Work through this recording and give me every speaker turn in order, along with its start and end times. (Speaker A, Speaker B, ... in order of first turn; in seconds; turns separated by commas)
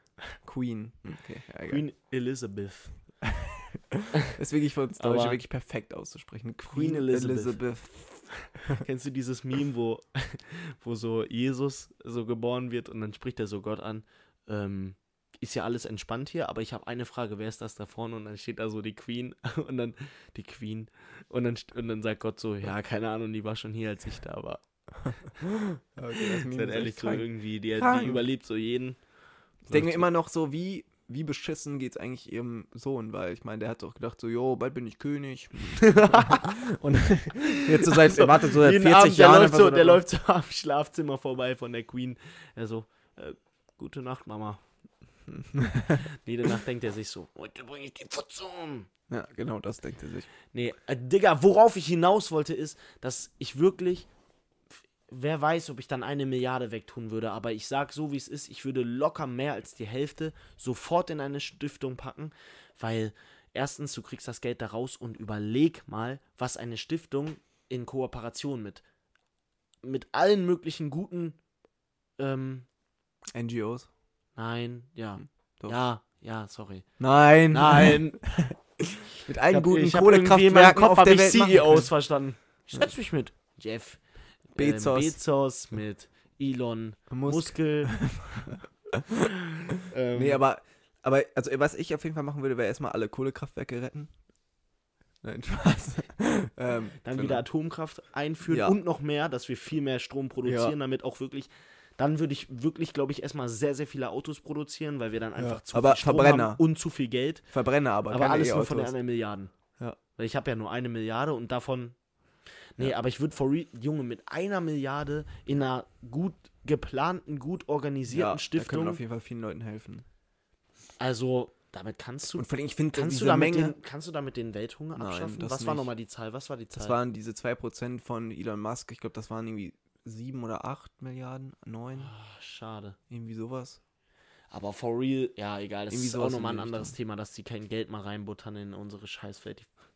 Speaker A: 0.4-1.8, Speaker B: 1.7-2.9, Speaker A: 3.2-8.8, Speaker B: 5.0-5.4, Speaker B: 6.7-7.6, Speaker B: 8.7-24.6, Speaker A: 25.0-28.2, Speaker B: 26.1-29.0, Speaker B: 29.7-30.1, Speaker A: 29.7-40.0, Speaker B: 35.8-36.7, Speaker B: 37.3-44.6, Speaker A: 45.3-46.1, Speaker B: 46.0-48.9, Speaker A: 49.1-50.3, Speaker B: 50.5-54.1, Speaker B: 55.1-68.8, Speaker B: 69.8-71.4, Speaker B: 72.2-72.7, Speaker A: 73.3-73.9, Speaker B: 74.3-76.8, Speaker A: 77.0-81.9, Speaker B: 77.5-78.2, Speaker B: 79.5-84.0, Speaker B: 84.5-88.0, Speaker A: 84.6-85.2, Speaker A: 87.1-94.1, Speaker B: 89.8-90.4, Speaker A: 95.2-97.4, Speaker B: 97.0-107.5, Speaker A: 98.5-98.8, Speaker A: 100.4-100.7, Speaker A: 105.4-106.6, Speaker A: 107.5-108.9, Speaker B: 108.1-109.5, Speaker B: 110.2-112.0, Speaker B: 112.8-119.0, Speaker A: 118.1-120.0, Speaker B: 121.0-127.0, Speaker A: 122.3-123.7, Speaker A: 125.0-125.9, Speaker A: 126.7-132.1, Speaker B: 132.0-133.0, Speaker A: 133.1-133.8, Speaker B: 134.5-139.7, Speaker A: 135.9-136.9